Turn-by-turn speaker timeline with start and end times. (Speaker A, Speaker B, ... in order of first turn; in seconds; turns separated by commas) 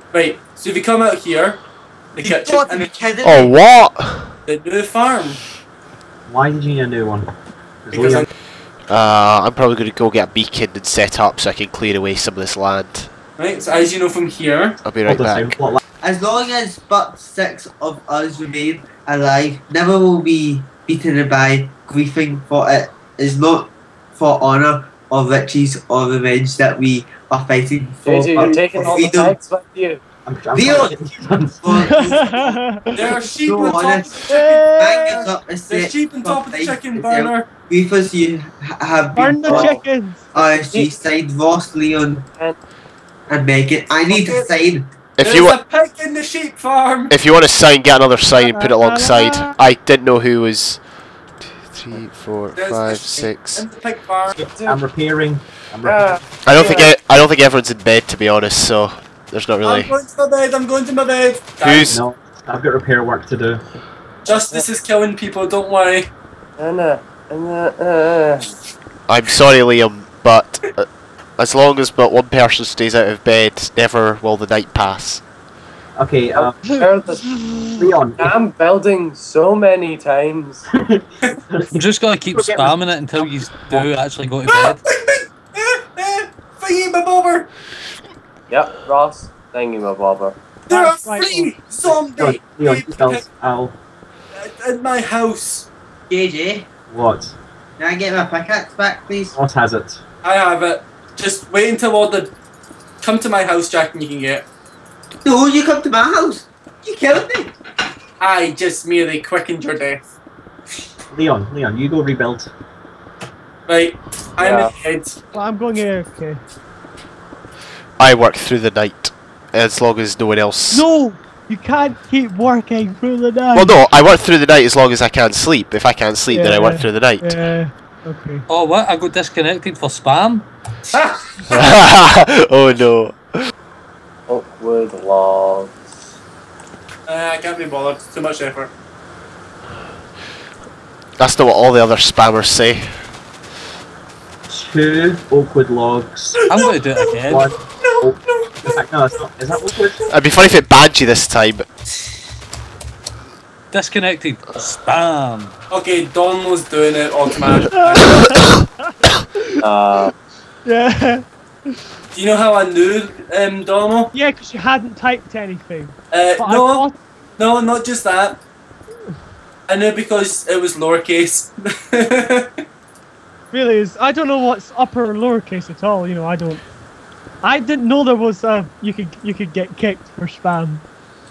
Speaker A: 0.1-1.6, Speaker A: 2.1-2.9, Speaker B: 2.2-3.5, Speaker C: 3.2-4.3, Speaker A: 4.5-5.4, Speaker D: 6.3-7.3, Speaker D: 7.8-8.3, Speaker A: 7.9-8.3, Speaker C: 8.9-13.1, Speaker A: 13.4-14.8, Speaker C: 14.8-15.6, Speaker D: 15.0-15.8, Speaker B: 16.0-29.4, Speaker E: 28.0-30.0, Speaker D: 28.4-28.8, Speaker D: 30.2-31.9, Speaker B: 30.5-31.0, Speaker B: 31.6-32.5, Speaker F: 31.7-33.0, Speaker A: 32.9-37.5, Speaker B: 33.3-42.3, Speaker F: 34.3-35.3, Speaker F: 39.1-40.2, Speaker E: 39.4-39.8, Speaker E: 40.3-41.0, Speaker B: 43.3-44.9, Speaker A: 44.0-44.5, Speaker C: 45.2-45.6, Speaker A: 45.2-47.1, Speaker C: 47.1-50.8, Speaker F: 48.3-49.5, Speaker C: 51.4-53.7, Speaker A: 52.5-54.4, Speaker D: 54.3-56.2, Speaker E: 54.5-54.8, Speaker E: 55.8-56.9, Speaker C: 56.4-60.0, Speaker A: 56.5-56.9, Speaker A: 59.6-62.0, Speaker C: 61.6-62.0, Speaker D: 61.8-63.6, Speaker A: 64.2-66.1, Speaker E: 64.2-64.7, Speaker E: 66.6-68.5, Speaker C: 69.1-75.2, Speaker D: 76.0-76.7, Speaker E: 76.3-77.4, Speaker F: 76.7-77.8, Speaker D: 77.8-78.3, Speaker E: 78.2-80.7, Speaker D: 80.7-83.9, Speaker G: 81.7-84.8, Speaker A: 84.5-87.5, Speaker E: 88.5-90.4, Speaker A: 90.7-93.2, Speaker F: 90.7-91.5, Speaker D: 91.8-93.8, Speaker A: 94.3-95.7, Speaker B: 96.1-96.7, Speaker D: 96.9-97.3, Speaker B: 97.8-99.3, Speaker D: 99.3-100.0, Speaker A: 100.2-102.3, Speaker A: 103.0-104.5, Speaker B: 105.2-107.5, Speaker A: 108.2-110.0, Speaker D: 111.1-112.5, Speaker A: 113.7-115.2, Speaker E: 114.4-114.7, Speaker F: 115.3-116.4, Speaker C: 118.0-120.8, Speaker F: 120.7-123.8, Speaker C: 123.5-127.4, Speaker F: 126.3-128.4, Speaker G: 128.5-130.5, Speaker A: 130.9-131.5, Speaker C: 131.5-133.5, Speaker E: 134.3-135.9, Speaker A: 137.1-138.7, Speaker C: 141.2-143.0, Speaker D: 144.5-146.4, Speaker A: 146.3-148.8, Speaker G: 146.5-147.5, Speaker D: 147.3-150.0, Speaker A: 149.6-150.1, Speaker C: 150.1-151.7, Speaker G: 153.7-155.5, Speaker A: 155.7-158.3, Speaker F: 157.7-159.6, Speaker E: 159.6-160.1, Speaker F: 160.6-161.8, Speaker A: 162.1-164.1, Speaker F: 164.1-167.0, Speaker A: 166.1-166.8, Speaker A: 167.4-168.4, Speaker A: 169.7-172.6, Speaker F: 173.5-176.6, Speaker F: 177.4-180.8